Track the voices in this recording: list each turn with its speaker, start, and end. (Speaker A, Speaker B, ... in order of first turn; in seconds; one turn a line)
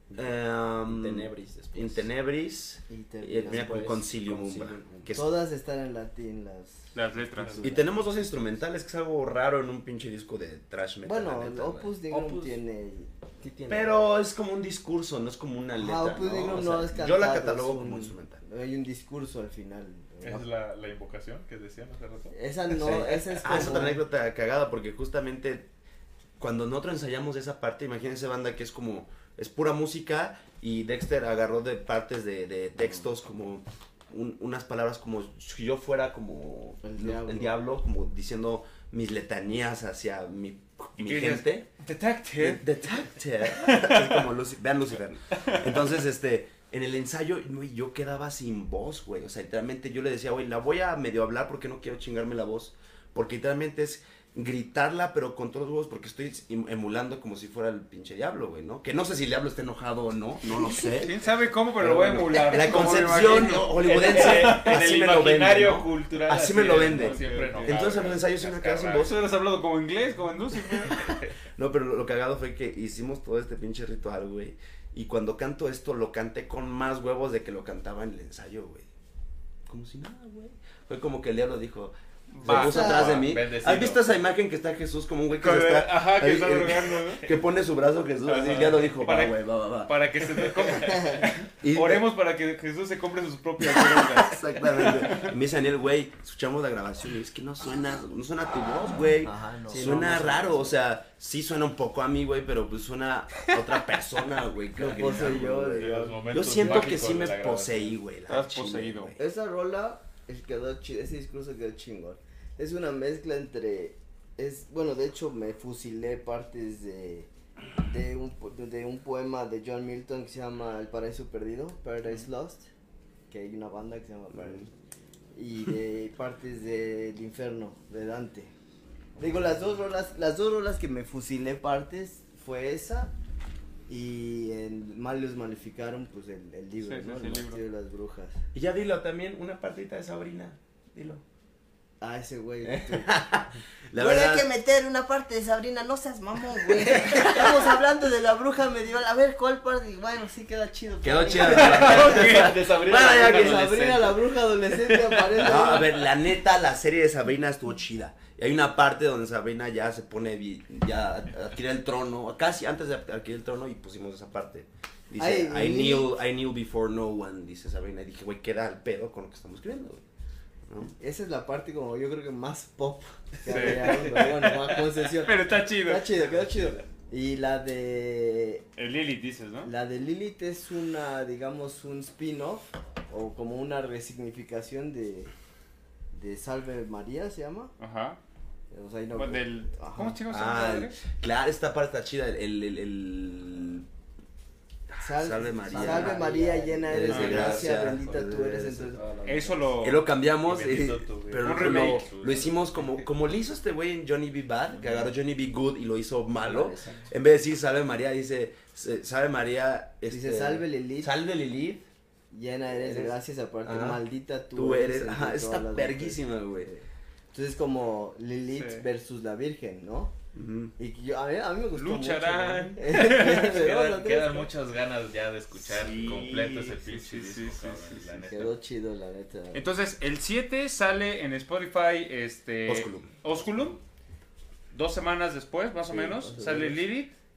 Speaker A: 0.1-2.1
Speaker B: 0.1-5.3
Speaker C: 2.9-4.0
Speaker A: 3.4-5.2
Speaker C: 5.1-7.8
Speaker D: 6.9-7.8
Speaker B: 7.6-11.9
Speaker C: 11.1-13.1
Speaker A: 12.1-12.6
Speaker A: 13.4-14.0
Speaker B: 13.7-18.4
Speaker C: 15.8-20.4
Speaker E: 20.2-23.1
Speaker C: 22.3-24.0
Speaker B: 22.8-25.7
Speaker B: 26.4-41.7
Speaker C: 36.8-37.6
Speaker D: 41.0-42.6
Speaker B: 42.4-61.1
Speaker D: 43.6-44.3
Speaker D: 45.4-45.6
Speaker D: 60.6-65.2
Speaker B: 61.8-69.2
Speaker E: 63.1-69.1
Speaker D: 66.5-68.2
Speaker D: 69.0-71.2
Speaker B: 71.6-78.9
Speaker B: 79.7-89.9
Speaker D: 82.3-83.2
Speaker E: 82.5-84.2
Speaker C: 82.5-83.2
Speaker D: 85.3-87.2
Speaker E: 88.3-89.3
Speaker D: 88.3-95.3
Speaker E: 90.4-91.3
Speaker B: 91.6-92.0
Speaker B: 93.6-109.2
Speaker C: 99.2-100.7
Speaker A: 99.8-100.5
Speaker C: 104.8-106.8
Speaker E: 105.1-108.0
Speaker D: 108.3-109.2
Speaker C: 109.2-122.7
Speaker C: 123.3-124.7
Speaker B: 124.3-124.7
Speaker C: 125.3-128.5
Speaker C: 129.2-133.1
Speaker C: 133.9-138.4
Speaker D: 136.8-137.6
Speaker B: 138.5-141.2
Speaker C: 142.0-155.9
Speaker B: 142.7-144.5
Speaker B: 151.0-153.7
Speaker D: 151.5-152.5
Speaker E: 151.6-155.8
Speaker B: 155.4-170.1
Speaker C: 165.2-166.1
Speaker B: 170.7-170.9
Speaker C: 171.0-178.7
Speaker D: 173.5-174.3
Speaker D: 175.2-176.3
Speaker D: 178.8-179.7
Speaker C: 179.6-185.3
Speaker C: 186.1-187.7
Speaker D: 187.8-188.2
Speaker C: 188.7-190.2
Speaker D: 189.2-191.0
Speaker B: 190.3-193.9
Speaker C: 195.0-199.1
Speaker B: 195.1-196.3
Speaker A: 195.6-199.7
Speaker B: 196.9-198.7
Speaker D: 197.1-197.6
Speaker D: 199.2-200.0
Speaker B: 199.8-211.9
Speaker E: 200.4-203.0
Speaker D: 201.4-202.1
Speaker A: 206.4-207.1
Speaker C: 210.1-211.1
Speaker C: 212.3-220.1
Speaker B: 212.7-214.0
Speaker B: 214.6-216.7
Speaker D: 218.5-218.9
Speaker B: 220.3-220.8
Speaker C: 220.8-224.5
Speaker D: 221.7-223.6
Speaker E: 223.3-228.6
Speaker D: 225.6-228.3
Speaker C: 228.3-229.7
Speaker D: 229.5-233.8
Speaker B: 232.7-233.2
Speaker D: 234.7-237.1
Speaker C: 235.9-236.9